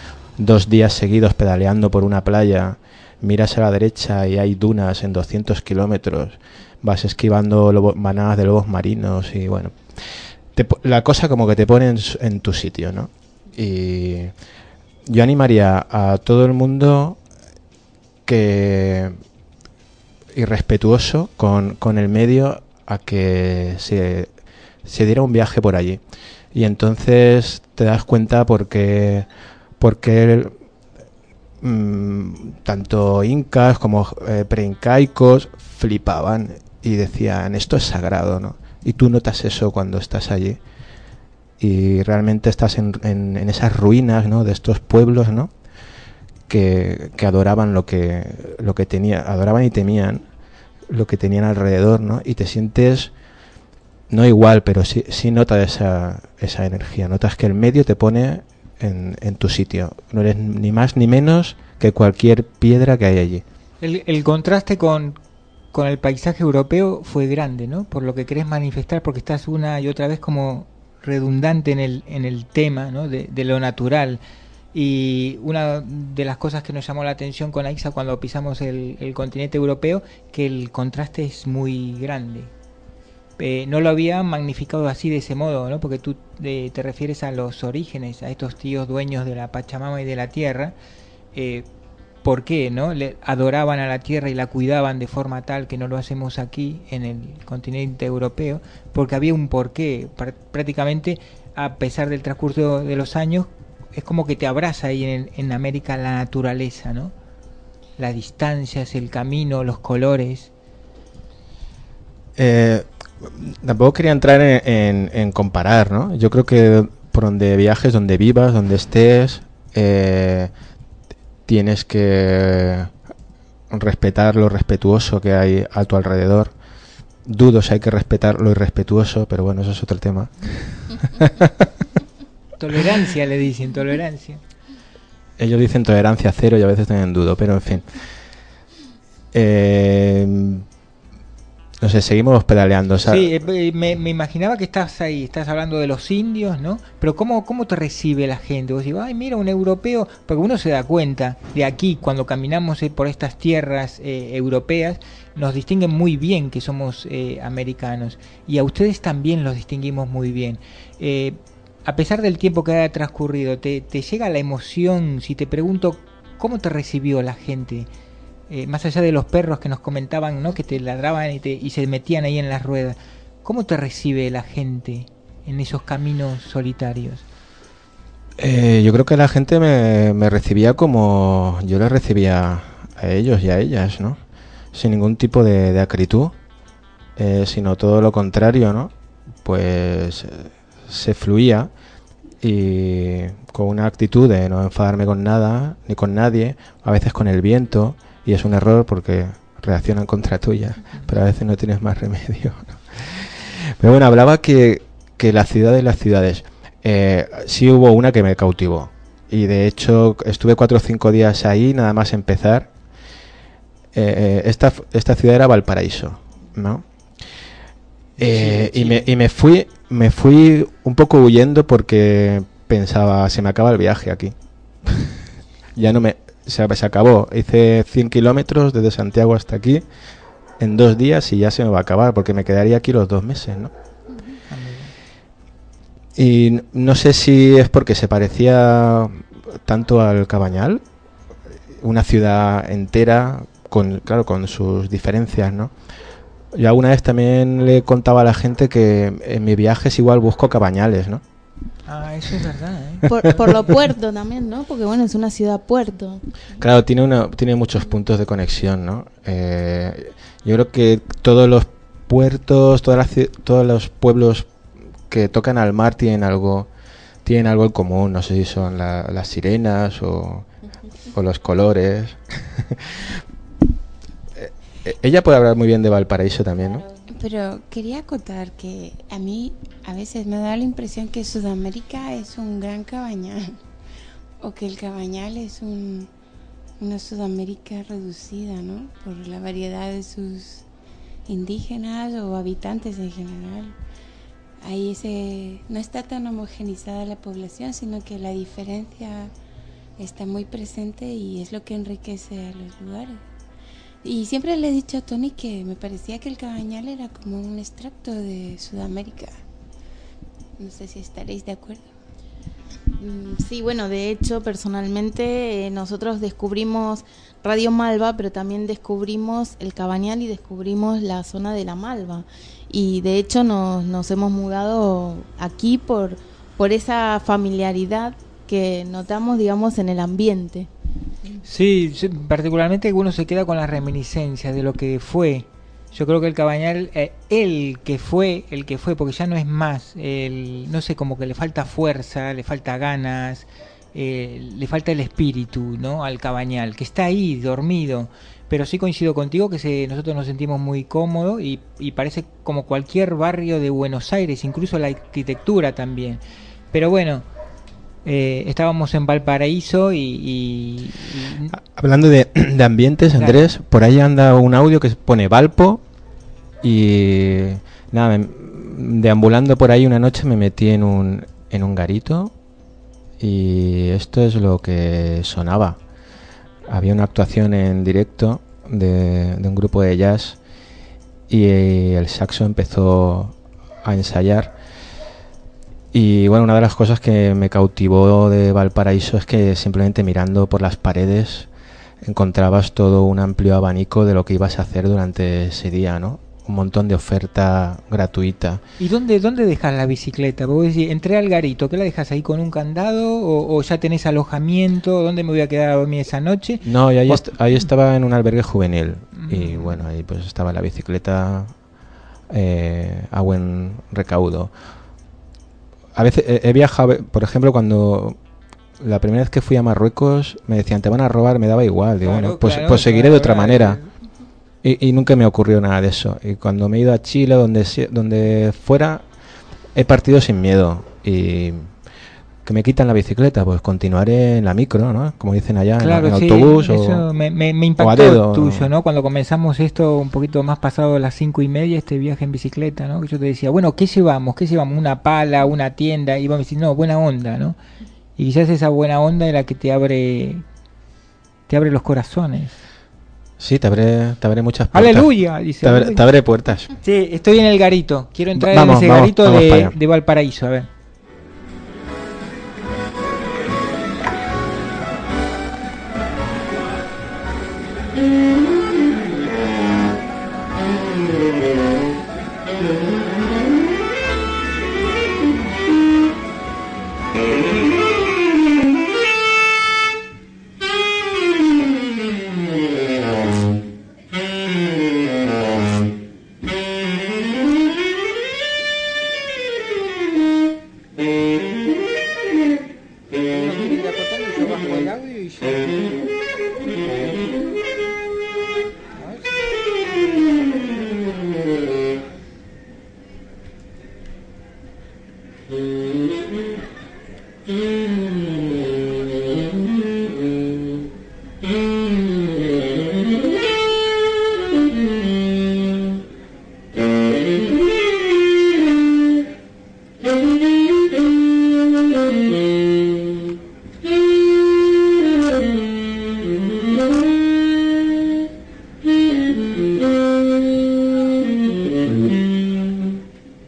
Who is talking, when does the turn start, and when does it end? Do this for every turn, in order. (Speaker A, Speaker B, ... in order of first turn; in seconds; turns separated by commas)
Speaker A: 0.4-9.8, Speaker A: 10.5-14.3, Speaker A: 15.1-17.2, Speaker A: 18.3-19.2, Speaker A: 20.3-24.3, Speaker A: 24.9-26.0, Speaker A: 26.5-29.3, Speaker A: 29.8-30.6, Speaker A: 31.6-40.6, Speaker A: 41.6-45.5, Speaker A: 46.5-50.2, Speaker A: 50.9-53.1, Speaker A: 54.1-63.4, Speaker B: 63.8-65.2, Speaker B: 65.7-74.2, Speaker B: 74.7-82.5, Speaker B: 83.4-90.7, Speaker B: 91.3-91.7, Speaker B: 92.2-107.1, Speaker B: 108.0-110.5, Speaker A: 112.4-120.5, Speaker A: 121.5-122.9, Speaker A: 123.7-126.5, Speaker A: 127.3-131.7, Speaker B: 132.6-134.4, Speaker A: 135.4-137.9, Speaker A: 139.3-140.7, Speaker A: 141.8-143.4, Speaker B: 143.1-167.9, Speaker B: 168.5-177.2, Speaker A: 178.4-184.2, Speaker A: 184.7-186.3, Speaker A: 187.2-188.9, Speaker A: 189.4-191.7, Speaker A: 192.4-212.7, Speaker A: 213.9-216.8, Speaker B: 218.2-219.1, Speaker A: 218.2-225.1, Speaker A: 225.8-229.8, Speaker A: 230.6-233.7, Speaker B: 234.5-234.9, Speaker A: 236.2-240.8, Speaker A: 241.8-245.7, Speaker A: 246.5-251.2, Speaker B: 251.9-253.1, Speaker C: 253.1-256.2, Speaker A: 256.6-264.5, Speaker A: 265.1-266.7, Speaker A: 267.2-270.5, Speaker A: 271.1-273.2, Speaker A: 274.4-276.8, Speaker D: 277.1-283.6, Speaker D: 284.4-286.1, Speaker D: 286.8-290.6, Speaker D: 291.3-293.7, Speaker D: 294.6-299.3, Speaker D: 300.0-303.2, Speaker D: 304.0-309.4, Speaker D: 310.6-311.9, Speaker C: 313.0-330.7, Speaker B: 331.5-357.3, Speaker B: 358.1-361.5, Speaker A: 361.5-365.8, Speaker B: 363.2-363.5, Speaker A: 366.6-372.3, Speaker A: 373.2-375.8, Speaker A: 376.7-380.4, Speaker A: 381.3-384.5, Speaker A: 385.9-391.5, Speaker A: 392.0-398.6, Speaker B: 398.8-407.2, Speaker A: 406.6-411.5, Speaker B: 409.1-409.8, Speaker A: 412.3-414.5, Speaker A: 415.9-418.2, Speaker A: 418.8-423.8, Speaker B: 422.0-423.9, Speaker A: 424.6-429.0, Speaker A: 429.7-431.7, Speaker A: 432.4-437.1, Speaker B: 435.8-447.6, Speaker A: 437.8-438.7, Speaker B: 448.2-450.4, Speaker B: 451.5-452.6, Speaker A: 453.4-455.1, Speaker B: 454.7-456.0, Speaker A: 455.6-456.7, Speaker B: 456.8-460.7, Speaker A: 458.4-459.8, Speaker B: 493.3-495.7, Speaker B: 499.0-499.4